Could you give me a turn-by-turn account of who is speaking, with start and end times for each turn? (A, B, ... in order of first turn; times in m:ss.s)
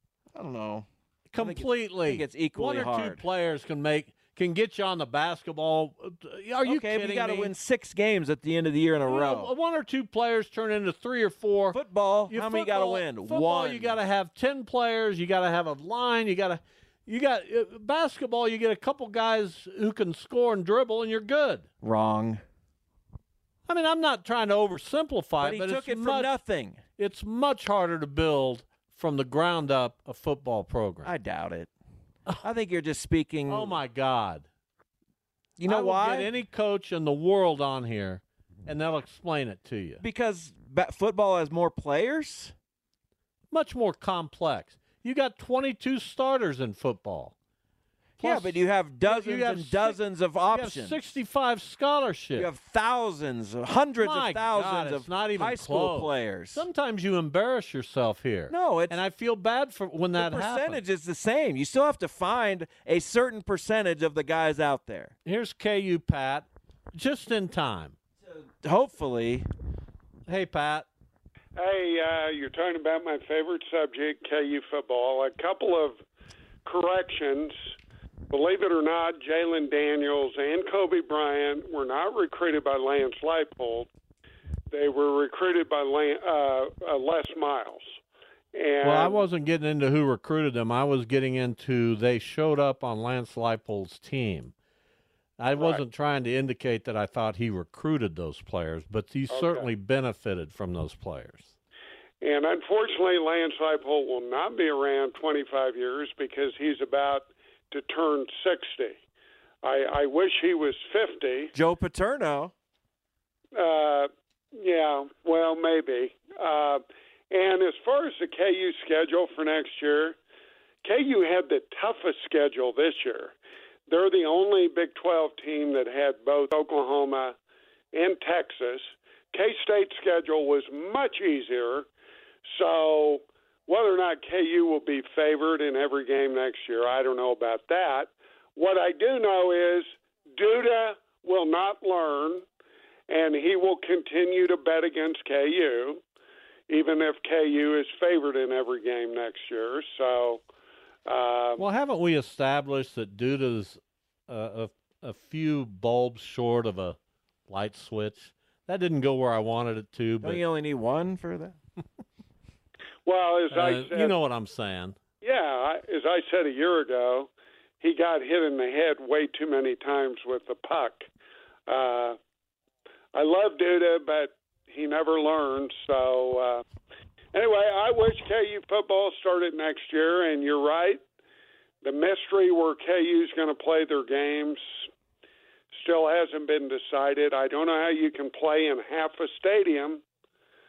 0:00.4-0:00.9 A
0:01.3-0:07.5 B
0:01.4-0:03.2 A
0:06.6-0:09.5 A
0:09.1-0:11.8 B
0:11.7-0:14.0 A
0:12.3-0:21.7 B
0:21.8-0:22.4 A
0:23.7-0:26.3 B
0:25.4-0:26.8 A
0:27.0-0:31.1 B
0:31.0-0:31.7 A
0:32.4-0:33.8 A
0:33.5-0:34.5 B
0:35.6-0:36.3 A
0:35.6-0:40.0 B
0:40.0-0:42.5 A
0:43.5-0:47.4 B
0:48.2-0:50.0 B
0:48.2-0:51.0 A
0:50.5-0:52.5 B
0:52.4-0:56.7 A
0:54.0-1:00.8 B
0:58.5-0:59.0 A
1:00.2-1:05.1 A
1:05.2-1:08.0 B
1:08.2-1:09.5 A
1:10.3-1:10.9 B
1:11.6-1:16.0 C
1:16.6-1:17.6 C
1:18.3-1:23.9 C
1:24.7-1:27.8 C
1:28.5-1:29.2 C
1:28.8-1:34.5 B
1:35.4-1:41.6 B
1:39.3-1:39.7 C
1:42.2-1:49.0 C
1:49.6-1:51.5 C
1:51.5-1:52.5 A
1:53.6-2:00.2 C
2:00.8-2:03.4 C
2:03.9-2:07.4 C
2:07.9-2:11.9 C
2:12.5-2:22.4 C
2:23.1-2:26.0 C
2:26.7-2:30.4 C
2:31.1-2:31.6 C
2:31.6-2:37.0 B
2:37.5-2:40.4 B
2:40.2-2:41.6 A
2:43.0-2:44.1 C
2:43.5-2:45.0 B
2:45.2-2:47.3 C
2:47.8-2:51.1 C
2:51.7-2:52.2 C
2:53.1-2:56.6 C
2:57.3-3:01.0 C
3:01.8-3:04.6 C
3:05.7-3:10.0 C